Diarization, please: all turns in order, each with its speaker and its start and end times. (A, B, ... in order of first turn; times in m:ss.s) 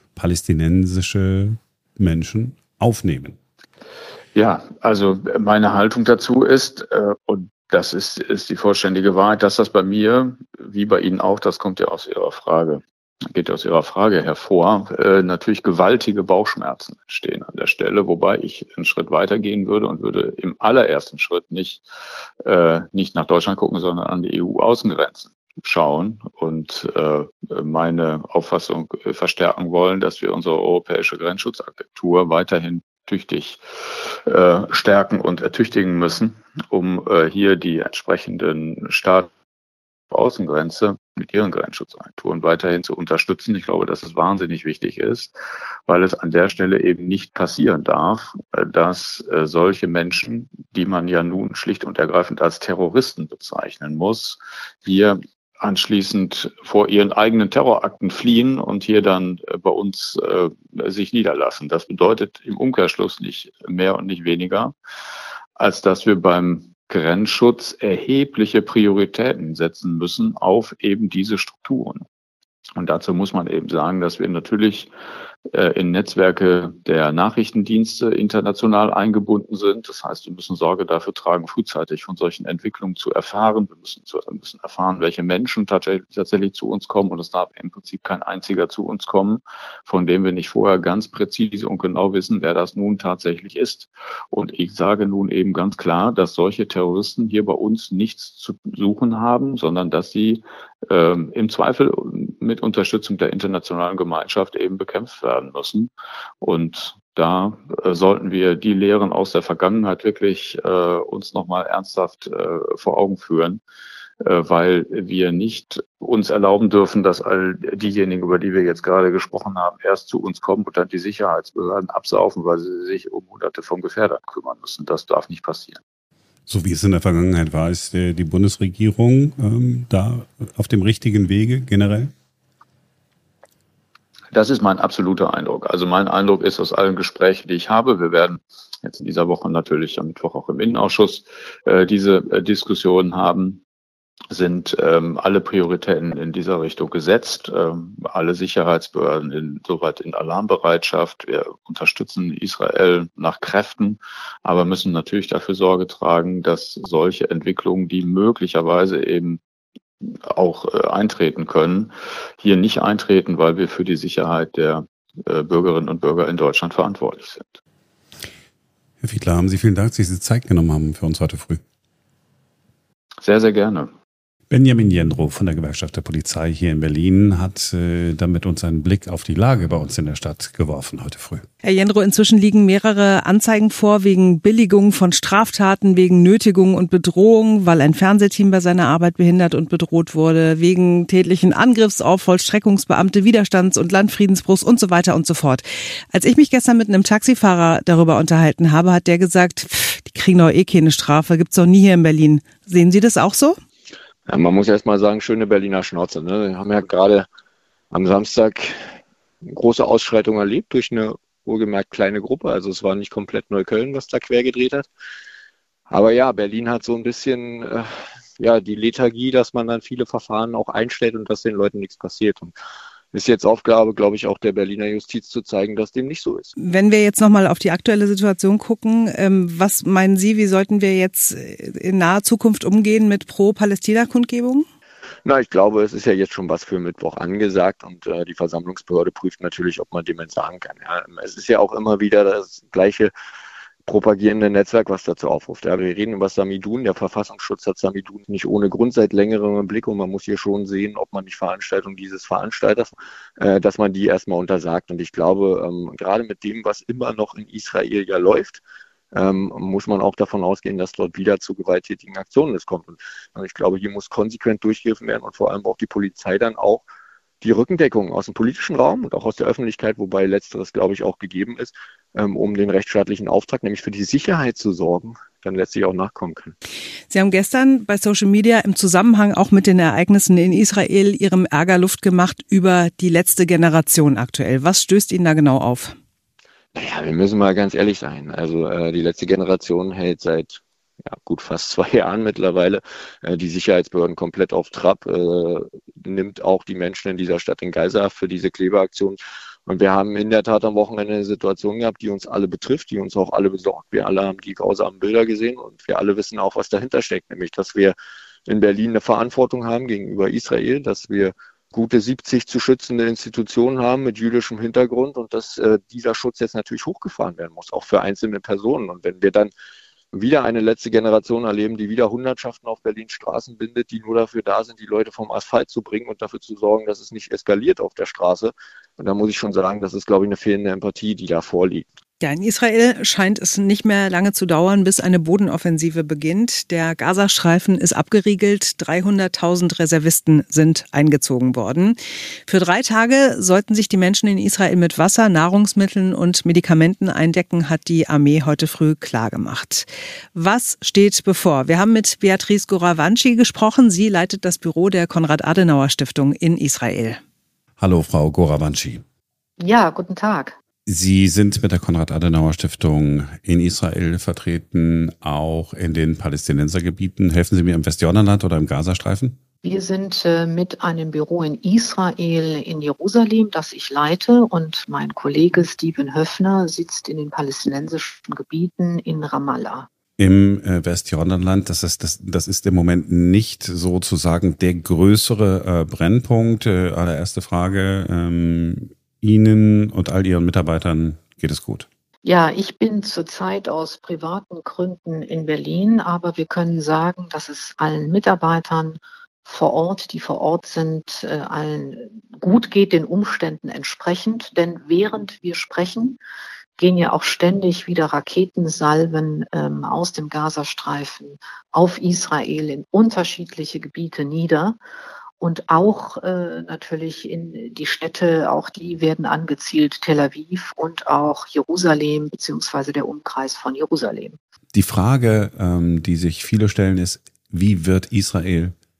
0:00.2-0:03.4 A
0:04.3-0:21.8 B
0:22.4-0:39.3 B
0:40.1-0:45.3 B
0:45.9-1:04.7 B
1:05.6-1:12.0 B
1:12.8-1:14.9 B
1:15.5-1:45.9 B
1:46.4-1:53.6 B
1:54.2-2:05.8 B
2:06.5-2:12.1 A
2:14.3-2:23.6 B
2:24.3-2:39.4 B
2:40.0-2:47.6 B
2:49.0-2:51.6 A
2:53.2-2:53.9 B
2:54.5-3:01.5 A
3:01.6-3:23.6 C
3:24.3-3:27.3 D
3:27.9-3:28.7 D
3:29.5-3:34.9 D
3:35.9-3:42.5 D
3:43.1-3:46.5 D
3:46.6-3:54.6 C
3:55.2-4:03.1 D
4:03.8-4:18.6 D
4:19.1-4:26.8 D
4:27.4-4:36.6 D
4:37.1-4:46.0 C
4:46.7-5:07.9 D
5:08.4-5:19.5 D
5:20.1-5:31.8 D
5:32.2-5:57.2 C
5:57.8-5:59.0 A
5:59.6-6:00.6 E
6:00.8-6:09.4 A
6:09.6-6:19.9 E
6:20.2-6:31.9 A
6:32.2-6:46.2 E
6:46.8-6:54.8 E
6:55.4-7:04.4 E
7:04.7-7:08.7 A